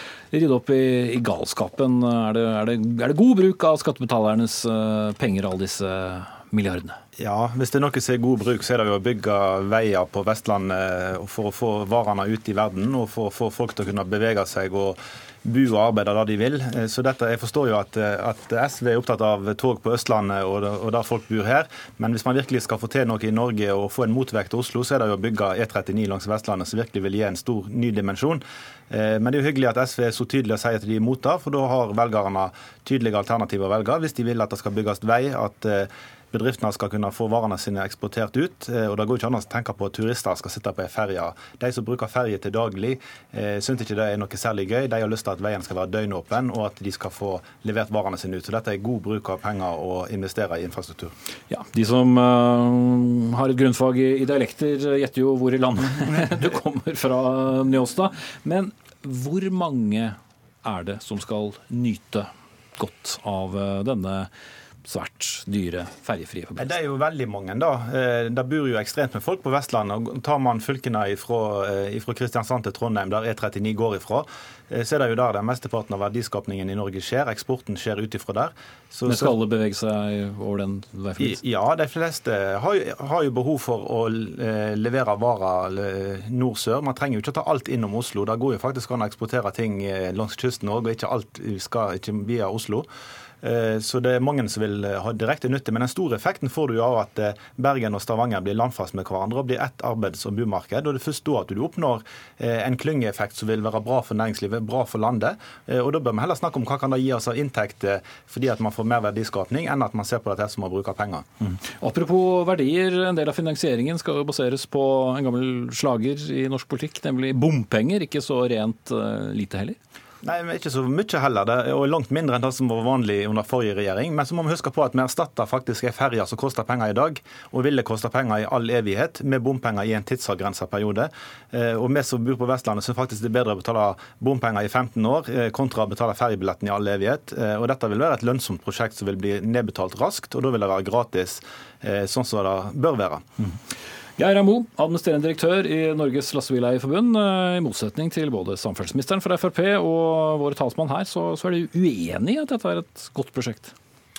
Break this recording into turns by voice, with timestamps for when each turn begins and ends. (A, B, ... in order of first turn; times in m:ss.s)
0:00.3-0:07.0 A
0:07.2-0:51.1 B
0:51.5-1:04.3 A
1:04.8-1:06.7 A
1:06.6-1:19.4 B
1:19.1-1:21.4 A
1:21.2-1:32.9 B
1:33.4-1:51.3 B
1:51.7-1:59.8 A
2:00.2-2:23.2 B
2:24.2-2:33.7 A